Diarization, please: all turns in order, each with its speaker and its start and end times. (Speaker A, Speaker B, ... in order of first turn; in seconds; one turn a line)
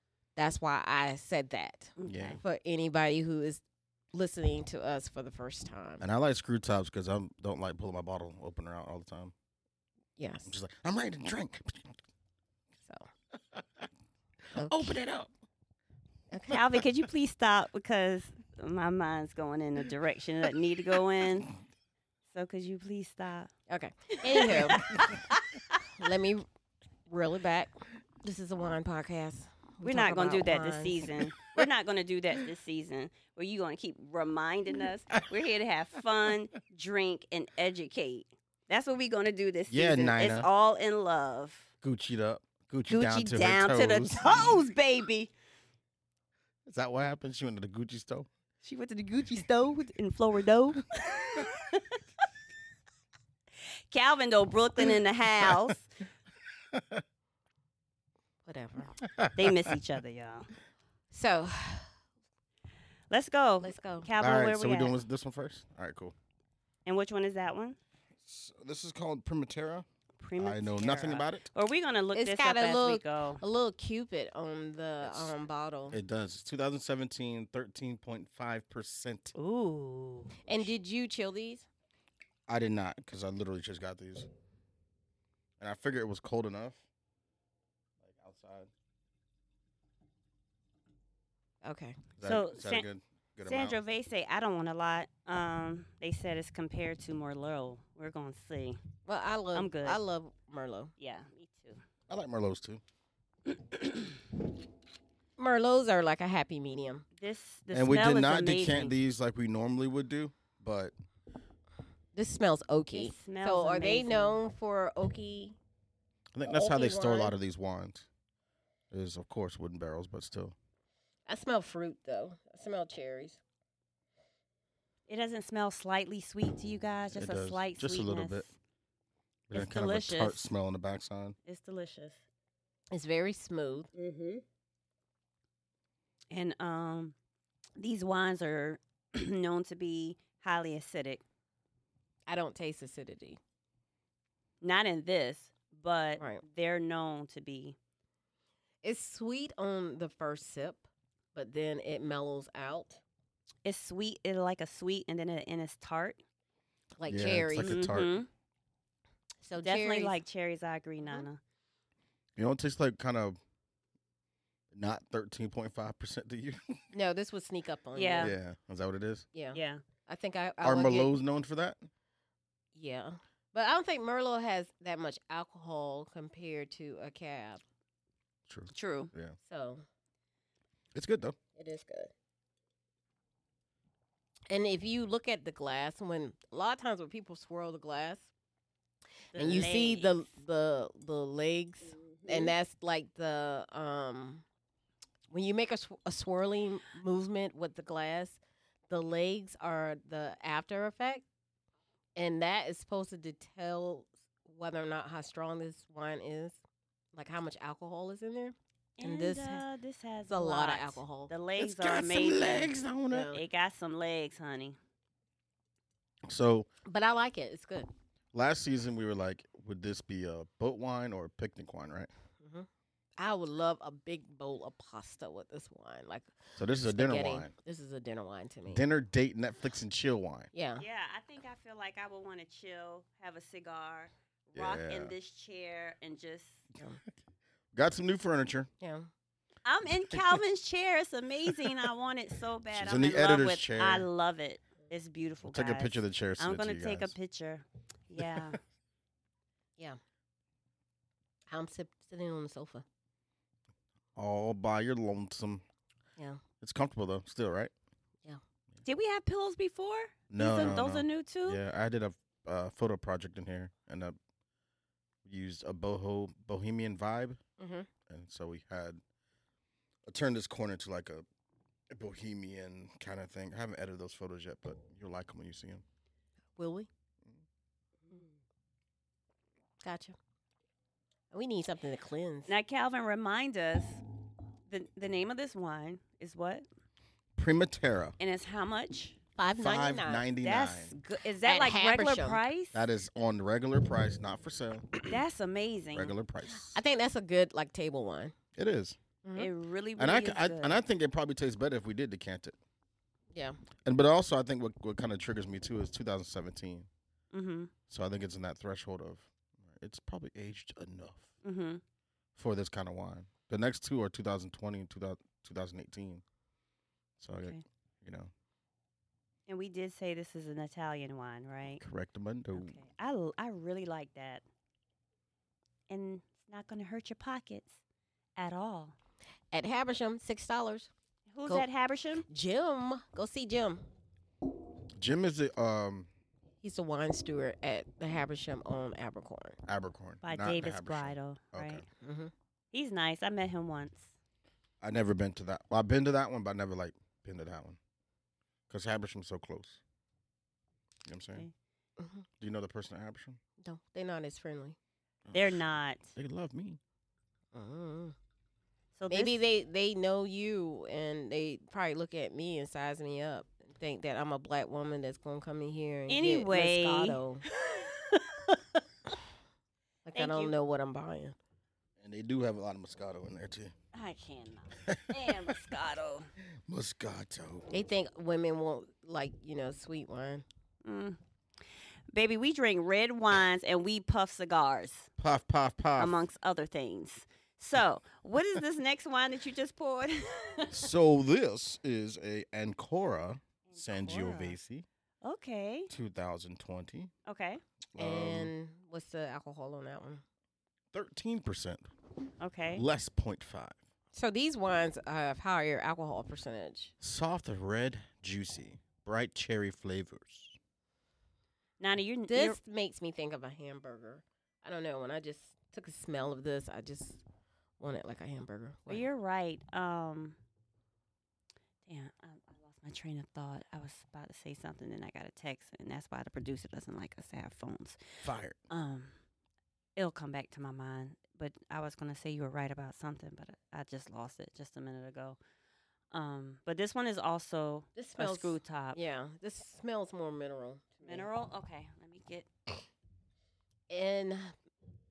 Speaker A: 0.4-6.0
Speaker B: 2.0-2.4
Speaker C: 2.1-2.4
Speaker C: 6.0-9.3
Speaker A: 10.2-10.5
Speaker C: 10.5-12.0
Speaker C: 13.5-13.9
Speaker A: 14.5-15.0
Speaker C: 14.6-15.3
Speaker B: 16.5-21.5
Speaker B: 22.3-23.5
Speaker A: 23.7-25.1
Speaker B: 24.3-25.8
Speaker A: 25.8-26.5
Speaker A: 27.1-31.1
Speaker B: 29.8-41.7
Speaker C: 39.7-40.5
Speaker C: 41.8-44.5
Speaker B: 42.9-45.3
Speaker C: 46.7-48.3
Speaker B: 48.6-52.0
Speaker B: 53.9-55.9
Speaker C: 56.7-57.0
Speaker A: 58.5-59.0
Speaker C: 59.0-59.7
Speaker B: 59.4-60.5
Speaker A: 61.1-61.9
Speaker B: 63.1-64.9
Speaker A: 63.6-64.1
Speaker C: 64.2-66.2
Speaker B: 66.9-67.8
Speaker C: 68.2-69.9
Speaker B: 70.2-73.4
Speaker C: 70.4-71.5
Speaker A: 72.1-76.0
Speaker C: 75.0-75.3
Speaker C: 75.9-79.3
Speaker B: 79.4-80.3
Speaker A: 80.4-81.7
Speaker C: 80.5-80.7
Speaker C: 82.5-84.3
Speaker C: 85.6-86.8
Speaker C: 88.0-88.7
Speaker A: 91.6-92.0
Speaker C: 92.2-93.8
Speaker B: 92.2-92.9
Speaker B: 93.4-98.8
Speaker A: 99.1-100.9
Speaker B: 99.5-100.0
Speaker B: 101.0-101.8
Speaker C: 102.1-102.8
Speaker B: 103.5-104.2
Speaker A: 105.4-107.0
Speaker B: 107.2-108.9
Speaker C: 107.7-110.9
Speaker A: 112.1-115.6
Speaker B: 112.9-114.4
Speaker C: 116.3-118.1
Speaker A: 116.5-117.3
Speaker C: 118.9-120.5
Speaker A: 121.3-123.4
Speaker B: 125.1-128.5
Speaker C: 127.1-128.5
Speaker C: 129.5-131.4
Speaker B: 129.5-130.5
Speaker B: 131.5-132.2
Speaker A: 132.9-133.9
Speaker B: 134.0-134.4
Speaker B: 136.3-137.2
Speaker B: 137.8-141.2
Speaker A: 142.3-143.4
Speaker B: 144.6-147.8
Speaker A: 148.8-153.0
Speaker B: 153.7-156.2
Speaker A: 157.0-157.8
Speaker C: 157.1-158.2
Speaker B: 157.6-158.3
Speaker A: 159.4-160.2
Speaker B: 159.6-161.4
Speaker C: 162.4-163.4
Speaker C: 164.7-166.8
Speaker A: 166.9-168.3
Speaker B: 167.9-168.3
Speaker C: 168.2-169.3
Speaker A: 169.3-171.2
Speaker B: 169.5-169.8
Speaker C: 170.6-171.9
Speaker A: 172.8-177.6
Speaker C: 178.5-179.4
Speaker B: 178.7-179.1
Speaker A: 179.4-179.8
Speaker C: 180.9-181.4
Speaker A: 181.6-182.1
Speaker A: 184.5-188.3
Speaker A: 189.3-194.4
Speaker B: 189.3-190.3
Speaker B: 192.0-192.5
Speaker A: 195.3-201.2
Speaker A: 202.2-206.6
Speaker A: 207.1-209.6
Speaker B: 209.0-212.7
Speaker A: 210.3-211.3
Speaker C: 211.6-213.3
Speaker A: 213.1-213.4
Speaker B: 213.3-214.8
Speaker C: 216.2-216.7
Speaker A: 216.8-217.9
Speaker C: 218.3-222.1
Speaker A: 222.4-222.7
Speaker A: 223.2-228.8
Speaker C: 226.6-227.5
Speaker C: 228.7-230.5
Speaker A: 230.5-230.8
Speaker B: 230.8-236.7
Speaker C: 234.5-235.1
Speaker C: 237.7-238.7
Speaker A: 238.8-239.1
Speaker B: 239.7-248.6
Speaker C: 240.1-240.4
Speaker C: 241.5-241.9
Speaker C: 242.7-244.1
Speaker C: 245.5-247.1
Speaker C: 248.2-248.6
Speaker A: 251.5-252.8
Speaker C: 254.2-255.6
Speaker C: 256.6-257.7
Speaker B: 258.9-261.6
Speaker C: 260.3-264.2
Speaker C: 265.2-267.4
Speaker A: 267.6-267.9
Speaker C: 268.1-269.0
Speaker C: 270.1-271.2
Speaker C: 271.9-275.8
Speaker A: 276.6-276.9
Speaker A: 279.8-280.2
Speaker A: 281.3-282.5
Speaker B: 282.5-284.0
Speaker B: 284.7-286.6
Speaker C: 287.4-288.2
Speaker B: 288.2-289.2
Speaker A: 289.4-290.2
Speaker C: 289.6-290.9
Speaker B: 290.4-292.8
Speaker A: 291.4-292.4
Speaker C: 292.7-295.2
Speaker B: 295.0-296.1
Speaker C: 295.9-296.8
Speaker A: 296.6-298.3
Speaker C: 298.6-299.0
Speaker A: 299.2-299.5
Speaker B: 299.4-300.8
Speaker C: 300.0-302.6
Speaker C: 303.9-306.9
Speaker B: 307.3-307.7
Speaker C: 307.9-311.3
Speaker B: 311.4-311.8
Speaker C: 312.4-316.2
Speaker C: 317.2-318.3
Speaker B: 319.5-321.8
Speaker C: 321.8-322.8
Speaker B: 322.5-324.4
Speaker B: 325.9-327.8
Speaker B: 328.4-328.9
Speaker A: 329.5-330.9
Speaker B: 331.3-332.3
Speaker A: 332.3-333.8
Speaker C: 334.9-336.1
Speaker A: 336.6-339.6
Speaker C: 339.7-341.9
Speaker B: 340.2-341.9
Speaker A: 342.0-342.3
Speaker B: 342.7-344.1
Speaker C: 344.8-347.8
Speaker C: 348.7-349.8
Speaker C: 351.1-351.5
Speaker A: 352.0-352.2
Speaker C: 352.4-353.4
Speaker A: 353.6-354.8
Speaker C: 355.2-355.6
Speaker B: 355.3-356.1
Speaker C: 356.1-356.8
Speaker A: 357.5-358.2
Speaker B: 359.0-359.4
Speaker A: 359.1-367.4
Speaker B: 366.1-368.3
Speaker A: 370.1-371.4
Speaker B: 370.1-370.5
Speaker C: 372.0-373.7
Speaker B: 373.9-376.3
Speaker C: 374.8-375.7
Speaker C: 376.7-377.7
Speaker A: 377.7-380.4
Speaker B: 380.8-381.2
Speaker B: 382.1-385.1
Speaker C: 385.2-386.2
Speaker B: 386.0-390.9
Speaker C: 390.7-394.9
Speaker B: 393.7-394.6
Speaker B: 395.2-395.9
Speaker C: 395.9-397.1
Speaker B: 397.3-397.6
Speaker C: 397.9-398.5
Speaker A: 398.0-400.2
Speaker C: 400.9-401.9
Speaker B: 402.4-402.8
Speaker C: 402.7-403.8
Speaker A: 404.1-406.9
Speaker C: 407.0-410.6
Speaker B: 411.8-412.6
Speaker A: 412.3-417.2
Speaker A: 417.8-419.1
Speaker B: 418.9-420.4
Speaker B: 421.9-428.0
Speaker C: 428.2-428.6
Speaker B: 428.7-429.1
Speaker B: 430.0-435.4
Speaker B: 436.1-439.0
Speaker A: 437.9-441.3
Speaker B: 441.1-442.5
Speaker A: 443.9-444.6